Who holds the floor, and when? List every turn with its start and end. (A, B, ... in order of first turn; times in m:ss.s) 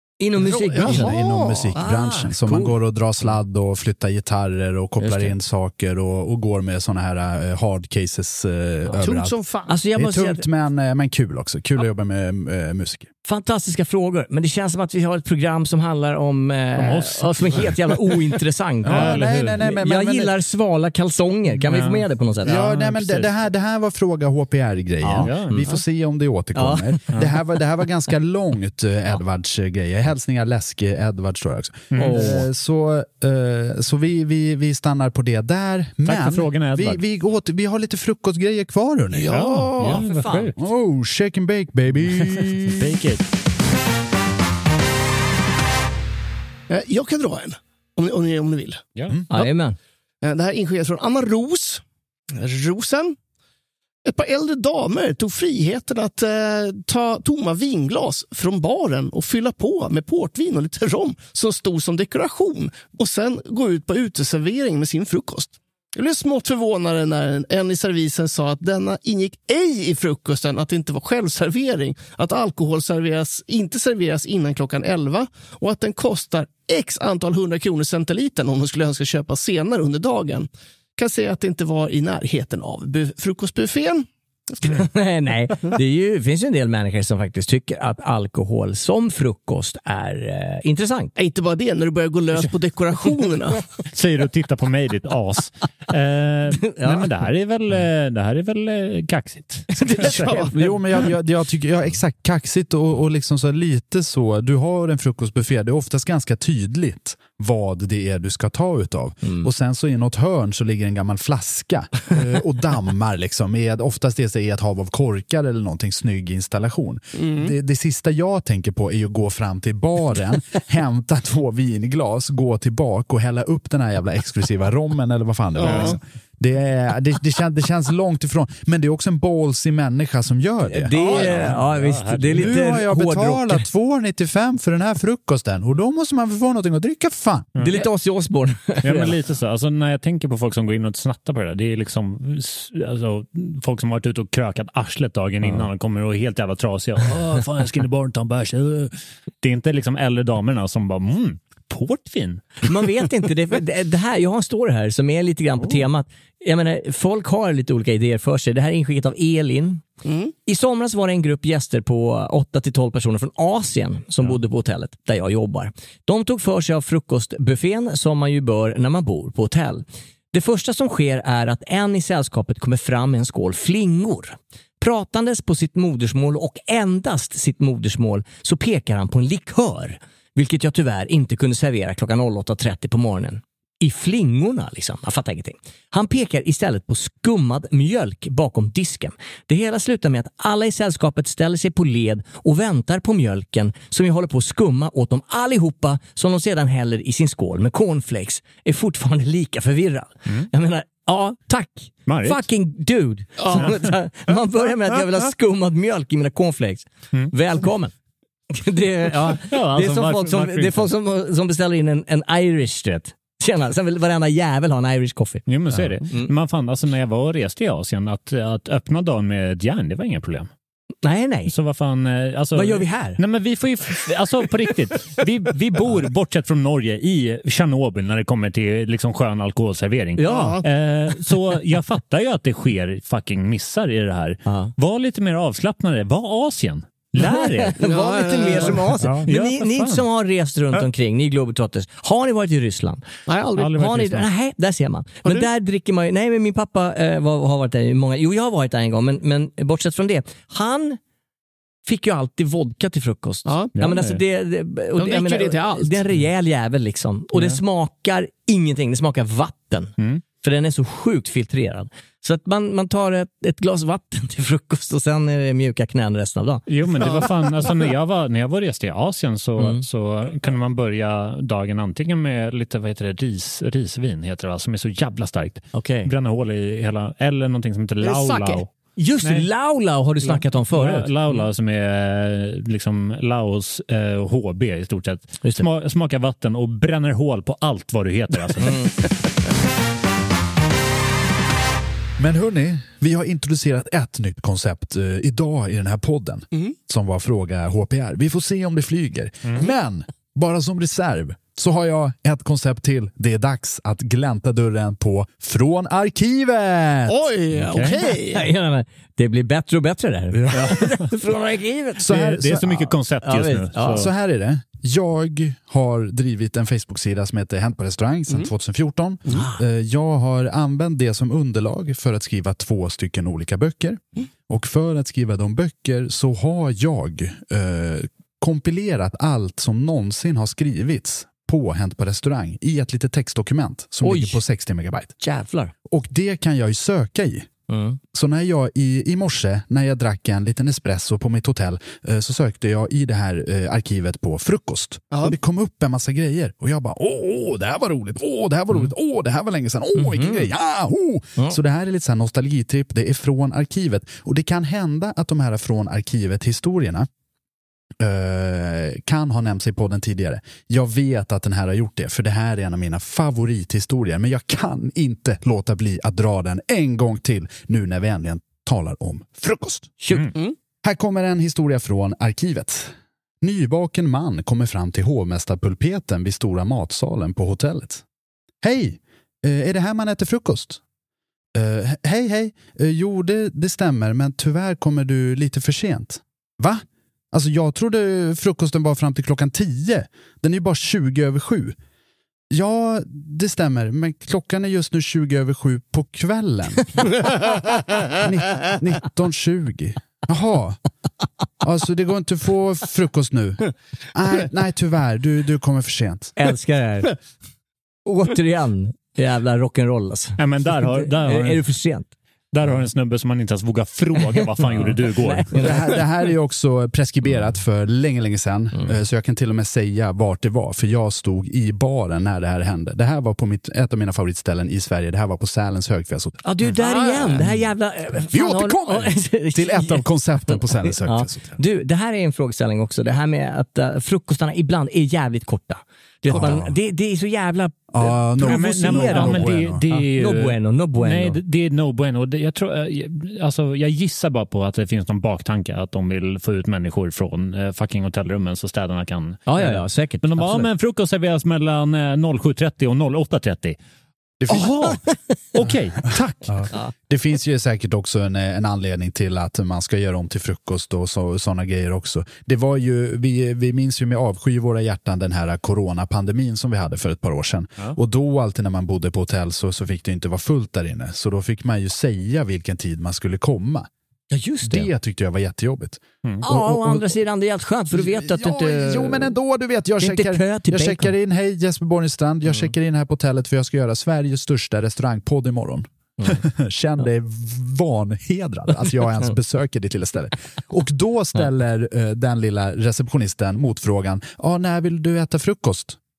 0:00.2-0:01.2 A
0:00.4-0:01.8 B
0:00.8-0:09.3 C
0:01.7-0:02.7 A
0:05.0-0:05.3 A
0:09.0-0:09.8 B
0:09.7-0:10.4 A
0:09.9-0:13.1 C
0:13.2-0:22.5 A
0:16.8-0:17.7 D
0:18.8-0:20.3 C
0:18.9-0:19.6 D
0:21.6-0:23.3 D
0:22.4-0:39.4 C
0:25.0-0:25.8 A
0:25.2-0:25.6 D
0:26.5-0:27.0 A
0:31.9-0:32.3 D
0:32.0-0:32.5 A
0:36.0-0:37.0 D
0:39.1-0:40.1 B
0:39.3-0:40.5 D
0:39.8-0:40.4 A
0:40.6-0:42.9 C
0:42.2-0:43.2 D
0:46.7-0:48.8 B
0:49.3-0:49.8 A
0:50.2-0:51.8 B
0:52.4-0:53.2 B
0:54.0-1:24.1 B
1:24.7-1:31.1 A
1:31.2-1:33.6 B
1:33.9-1:40.2 D
1:36.7-1:37.1 A
1:39.8-1:40.5 A
1:40.0-1:40.6 B
1:40.2-2:10.9 C
1:57.1-1:57.5 B
2:05.6-2:06.0 B
2:05.6-2:05.9 D
2:10.7-2:13.6 A
2:11.0-2:11.2 B
2:11.0-2:12.6 D
2:12.3-2:17.5 C
2:17.6-2:17.8 D
2:17.6-2:19.1 A
2:18.8-2:32.6 D
2:32.6-2:39.8 A
2:40.0-2:40.3 B
2:40.4-3:27.9 A
3:22.1-3:22.4 D
3:23.4-3:23.7 B
3:28.5-3:35.5 A
3:29.4-3:30.9 D
3:35.5-3:40.5 D
3:41.0-3:41.5 A
3:41.5-3:57.8 D
3:42.5-3:43.2 A
3:50.2-3:50.6 A
3:50.2-3:50.6 B
3:54.5-3:54.7 A
3:57.2-4:03.0 A
3:57.8-3:58.9 B
3:59.0-4:00.0 D
4:03.3-4:03.7 B
4:03.6-4:04.3 D
4:03.6-4:11.0 A
4:11.8-4:26.6 A
4:13.4-4:13.7 B
4:13.8-4:14.2 D
4:15.0-4:16.0 B
4:26.7-4:38.7 D
4:29.6-4:29.8 A
4:35.7-4:36.1 A
4:38.0-4:38.6 B
4:39.0-4:41.4 A
4:39.2-4:39.5 D
4:40.2-4:48.8 D
4:48.6-4:48.9 A
4:52.2-5:07.2 C
5:07.1-5:08.5 B
5:07.6-5:08.0 D
5:08.3-5:12.1 A
5:10.4-5:10.7 C
5:10.5-5:10.9 D
5:12.0-5:13.0 C
5:12.1-5:14.1 D
5:13.2-5:14.0 A
5:13.9-5:35.1 C
5:19.3-5:19.6 A
5:34.0-5:34.4 A
5:35.2-5:35.7 A
5:35.9-5:37.5 C
5:37.7-5:38.0 A
5:38.1-5:57.1 C
5:50.0-5:50.5 A
5:58.0-6:10.0 C
6:10.0-6:10.3 A
6:10.8-6:18.0 C
6:18.6-6:20.8 C
6:21.5-6:31.8 C
6:32.5-6:36.9 C
6:38.2-6:40.8 C
6:41.6-6:46.3 C
6:46.4-6:47.1 A
6:48.0-6:52.1 A
6:50.4-6:51.6 D
6:52.5-6:55.7 D
6:54.7-6:55.9 A
6:55.6-7:06.4 C
7:06.4-7:21.4 A
7:06.8-7:07.3 B
7:08.3-7:11.6 C
7:16.3-7:16.7 C
7:17.9-7:19.8 C
7:18.4-7:33.8 D
7:29.5-7:30.7 A
7:34.4-7:35.0 C
7:34.5-7:35.0 D
7:35.5-7:36.6 D
7:36.5-7:53.9 C
7:54.3-7:54.9 A
7:54.7-7:57.1 C
7:56.4-7:59.3 A
7:57.9-8:16.0 C
8:00.0-8:01.1 A
8:06.2-8:06.4 A